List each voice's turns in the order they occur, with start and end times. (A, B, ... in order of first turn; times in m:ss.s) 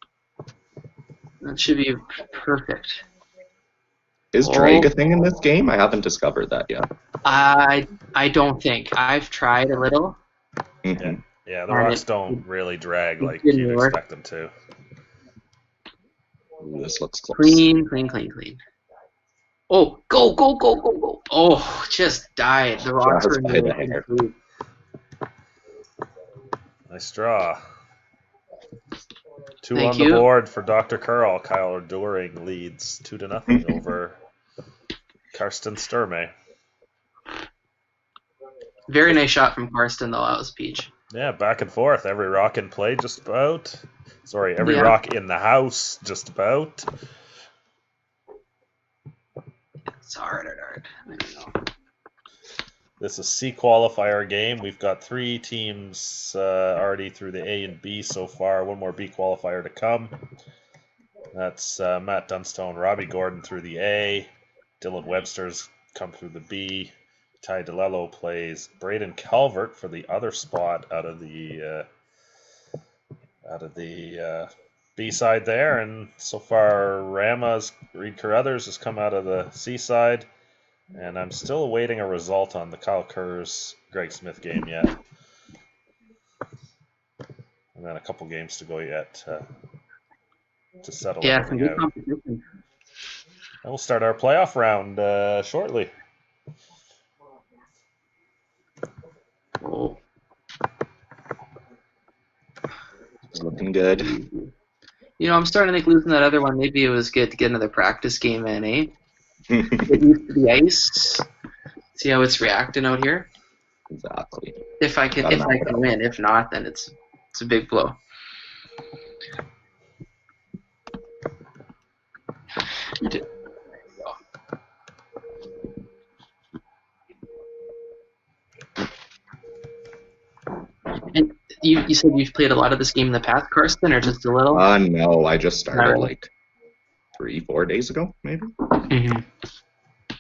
0:01.4-0:03.0 A
0:04.3-0:06.9 B
0:04.4-0:04.9 A
0:07.2-0:10.2 A
0:10.8-0:11.2 B
0:11.0-0:14.5 C
0:11.7-0:12.4 A
0:13.2-0:14.0 A
0:16.6-0:17.7 B
0:17.3-0:18.6 A
0:19.7-0:24.3 A
0:23.0-0:24.0 B
0:26.9-0:27.6 C
0:29.6-0:34.2 C
0:29.8-0:30.2 A
0:35.3-0:36.3 C
0:38.9-0:40.9 A
0:41.1-0:46.9 C
0:44.6-0:45.0 A
0:50.0-0:51.6 A
0:53.0-1:00.2 C
1:01.3-1:11.9 C
1:13.4-1:20.3 C
1:20.9-1:25.0 C
1:27.7-1:29.5 C
1:30.8-1:31.8 C
1:31.2-1:32.4 A
1:33.6-1:35.9 C
1:39.6-1:40.0 A
1:43.3-1:44.1 B
1:44.0-1:44.5 A
1:45.2-1:48.9 A
1:49.5-1:50.0 B
1:49.9-1:51.2 A
1:51.9-1:53.3 A
1:53.9-1:54.6 B
1:54.8-1:58.0 A
1:55.2-1:55.8 B
2:03.0-2:03.2 A
2:11.1-2:14.6 A
2:14.5-2:16.3 B
2:15.7-2:16.1 A
2:17.2-2:18.5 B
2:18.9-2:19.2 A